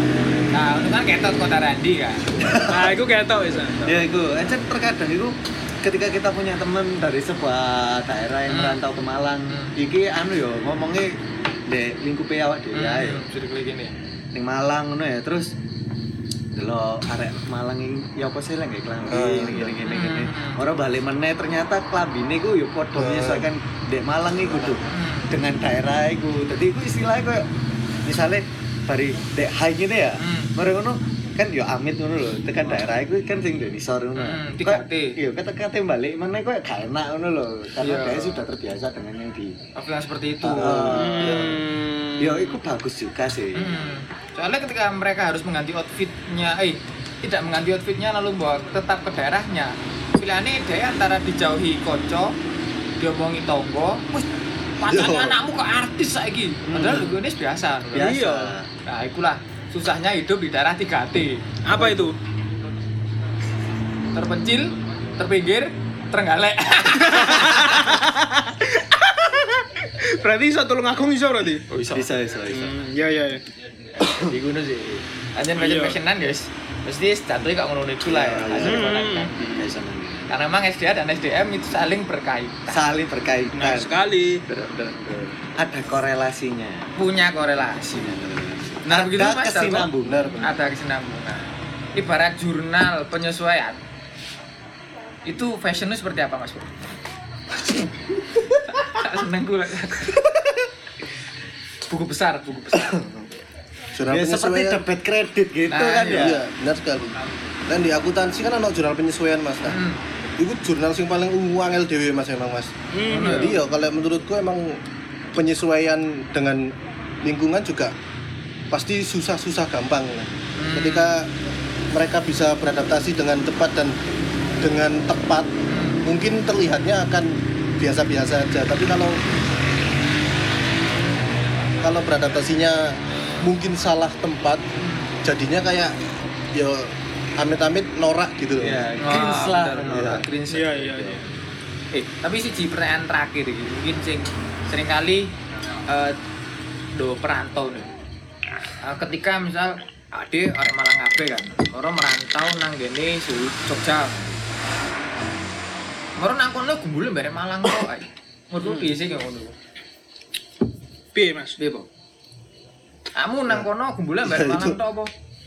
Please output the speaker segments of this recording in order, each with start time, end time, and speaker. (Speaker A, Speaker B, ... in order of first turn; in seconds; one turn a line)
Speaker A: 0.5-2.7
Speaker B: 2.4-2.9
Speaker C: 2.7-3.9
Speaker A: 3.5-4.0
Speaker B: 3.9-13.2
Speaker A: 8.5-8.8
Speaker A: 9.5-9.8
Speaker A: 12.7-13.9
Speaker B: 14.3-15.5
Speaker B: 16.6-27.5
Speaker D: 19.0-19.8
Speaker A: 19.8-20.6
Speaker D: 22.9-23.5
Speaker A: 24.9-25.4
Speaker B: 28.1-39.6
Speaker A: 30.2-30.5
Speaker A: 34.2-35.2
Speaker A: 37.8-38.5
Speaker A: 39.8-41.4
Speaker B: 40.4-41.6
Speaker D: 40.6-41.4
Speaker C: 41.0-42.6
Speaker B: 42.2-43.8
Speaker A: 43.6-52.4
Speaker A: 53.0-54.3
Speaker A: 54.8-58.1
Speaker D: 54.9-55.4
Speaker B: 56.7-57.2
Speaker B: 57.9-58.7
Speaker C: 58.0-58.5
Speaker A: 58.9-61.4
Speaker C: 61.6-62.1
Speaker B: 61.7-62.1
Speaker A: 64.1-68.0
Speaker C: 67.0-71.7
Speaker A: 71.7-72.1
Speaker B: 71.9-72.8
Speaker C: 72.5-73.4
Speaker A: 74.0-79.7
Speaker C: 75.6-76.0
Speaker B: 78.1-80.3
Speaker C: 78.6-79.3
Speaker A: 80.3-82.8
Speaker B: 82.7-83.9
Speaker C: 83.5-84.4
Speaker A: 84.5-85.3
Speaker B: 85.6-86.9
Speaker A: 87.0-88.2
Speaker B: 87.9-90.4
Speaker A: 88.8-89.9
Speaker D: 90.0-90.5
Speaker A: 90.4-93.8
Speaker A: 95.3-96.9
Speaker A: 98.7-100.2
Speaker A: 101.9-103.1
Speaker B: 102.7-103.1
Speaker D: 104.0-104.8
Speaker B: 104.1-106.4
Speaker A: 105.7-106.4
Speaker D: 106.1-107.2
Speaker D: 107.7-109.8
Speaker A: 109.7-110.0
Speaker D: 110.4-114.8
Speaker C: 112.9-113.6
Speaker A: 113.1-113.6
Speaker D: 115.3-117.9
Speaker D: 118.7-121.3
Speaker A: 120.6-121.1
Speaker D: 121.9-124.0
Speaker D: 124.6-125.5
Speaker A: 125.7-126.0
Speaker D: 126.0-129.2
Speaker D: 131.8-134.6
Speaker A: 134.8-135.2
Speaker D: 135.2-138.9
Speaker B: 138.7-140.2
Speaker A: 138.7-141.2
Speaker D: 139.9-140.2
Speaker C: 140.5-141.2
Speaker A: 141.9-145.3
Speaker A: 145.9-146.2
Speaker A: 146.9-147.9
Speaker A: 148.8-154.2
Speaker A: 156.2-159.5
Speaker C: 158.6-158.9
Speaker C: 161.2-161.6
Speaker A: 161.6-161.9
Speaker A: 163.2-165.1
Speaker D: 164.2-164.8